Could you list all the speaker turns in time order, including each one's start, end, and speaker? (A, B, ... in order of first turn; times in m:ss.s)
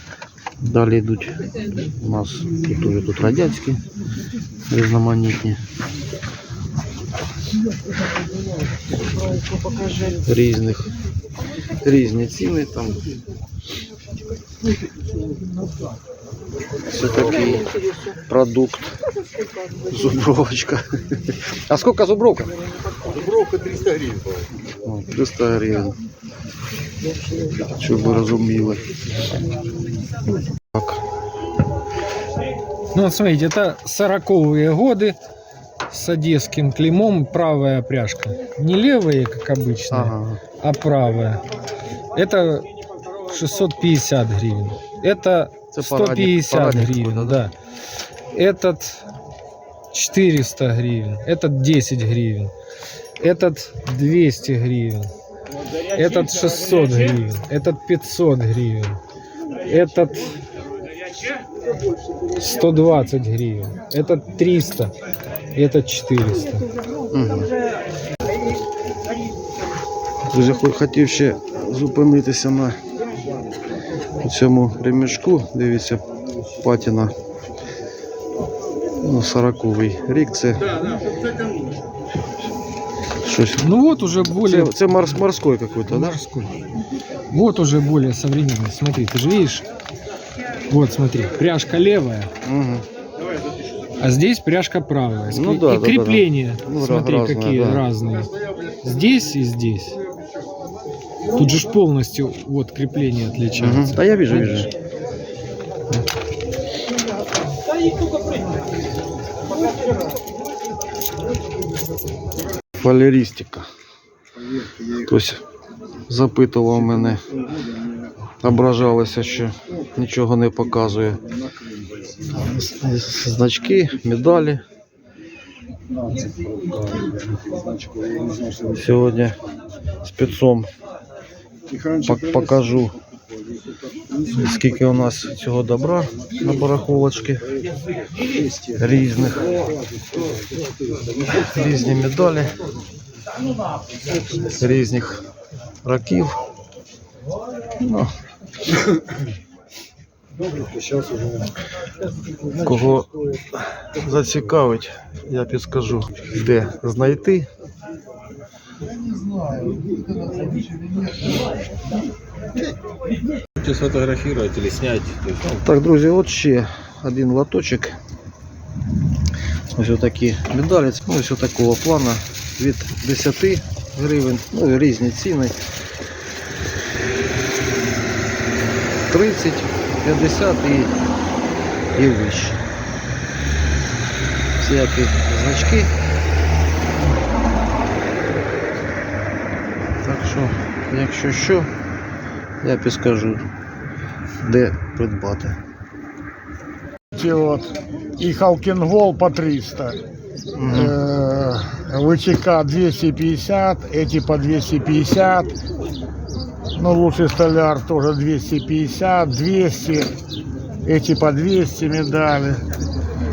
0:00.6-0:03.8 A
0:04.7-0:05.6 A
0:09.6-0:10.0 B
0:10.1-0:10.9 A
0:11.8-0:13.1 A
0:16.8-0:19.0 A
0:19.8-0:22.5 A
0:24.8-0:26.0 A
0:27.6-0:28.9 A
0:30.7-0:31.0 A
0:33.0-0:35.2 C
0:35.9-0:41.4 C
0:39.9-0:40.4 A
0:42.2-0:42.7 C
0:43.3-0:47.5 C
0:45.7-0:47.4 A
0:48.3-0:49.0 C
0:49.9-0:52.5 C
0:53.2-0:55.1 C
0:55.9-0:59.0 C
0:59.7-1:00.4 C
1:02.4-1:04.9 C
1:05.6-1:06.7 C
1:07.1-1:07.5 A
1:10.3-1:12.8 A
1:14.2-1:16.0 A
1:16.6-1:17.1 A
1:19.0-1:20.7 A
1:23.2-1:23.7 A
1:23.6-1:24.8 C
1:24.4-1:26.2 A
1:25.9-1:26.6 C
1:27.3-1:29.6 C
1:30.7-1:32.3 C
1:32.4-1:32.8 A
1:34.0-1:38.3 C
1:35.3-1:37.8 A
1:38.8-1:40.0 C
1:41.4-1:44.7 C
1:43.6-1:44.7 A
1:52.8-1:53.7 A
1:54.9-1:55.4 A
1:56.1-1:57.2 A
1:58.4-2:01.2 A
2:02.2-2:04.6 A
2:08.6-2:09.4 A
2:10.0-2:10.7 A
2:11.9-2:13.0 A
2:14.2-2:17.5 A
2:18.7-2:19.7 A
2:21.3-2:22.5 A
2:24.3-2:25.2 A
2:25.8-2:26.4 A
2:27.8-2:28.1 A
2:32.5-2:33.2 A
2:33.8-2:37.5 A
2:43.6-2:45.4 B
2:45.5-2:48.0 A
2:49.7-2:55.6 A
2:59.1-3:00.9 A
3:01.9-3:02.6 A
3:04.6-3:05.9 A
3:10.0-3:11.7 A
3:12.6-3:13.5 A
3:14.4-3:15.6 A
3:17.2-3:20.0 D
3:20.6-3:21.0 A
3:20.7-3:25.5 D
3:26.8-3:30.1 D
3:30.8-3:32.6 D